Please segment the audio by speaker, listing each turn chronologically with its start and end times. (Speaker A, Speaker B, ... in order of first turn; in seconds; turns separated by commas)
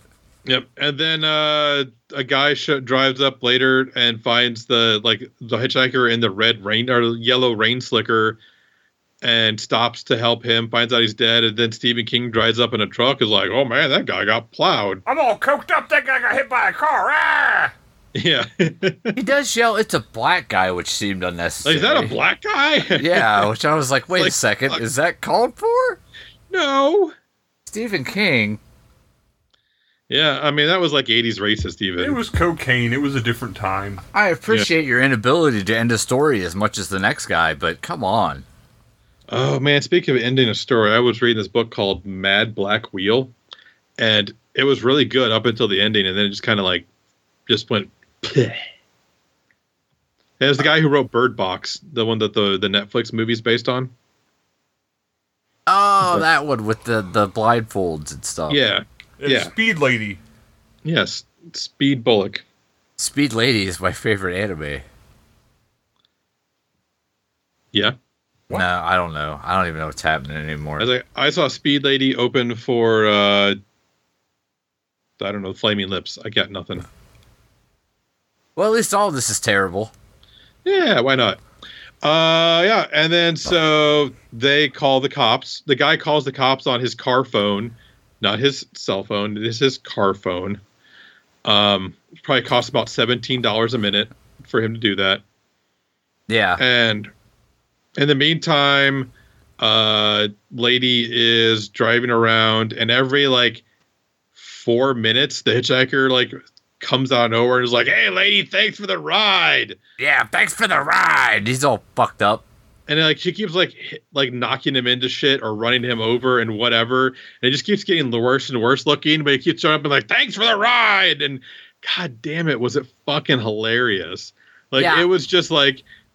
Speaker A: 0.5-8.4, Speaker A: 9.2-15.0, Speaker B: 15.1-17.7, Speaker A: 18.1-19.2, Speaker C: 19.1-22.1, Speaker A: 21.6-23.5, Speaker C: 23.0-26.0, Speaker A: 24.1-24.8, Speaker A: 26.5-27.1, Speaker C: 27.7-28.6, Speaker A: 30.1-32.2, Speaker B: 32.0-34.0, Speaker C: 34.1-38.5, Speaker A: 39.3-43.3, Speaker A: 44.0-46.9, Speaker A: 47.5-48.6, Speaker A: 50.4-53.9, Speaker C: 55.7-58.6, Speaker A: 58.5-59.5, Speaker B: 59.2-60.2, Speaker A: 60.9-62.4, Speaker C: 63.0-64.8, Speaker C: 68.5-70.9, Speaker A: 70.8-73.6, Speaker A: 75.2-76.9, Speaker C: 78.6-79.9, Speaker A: 80.7-81.4, Speaker A: 82.0-90.6, Speaker A: 91.5-95.2, Speaker C: 96.3-96.6, Speaker A: 96.6-97.1, Speaker A: 98.0-103.6, Speaker A: 104.4-109.8, Speaker C: 110.0-112.4, Speaker A: 112.9-125.8, Speaker C: 124.8-125.1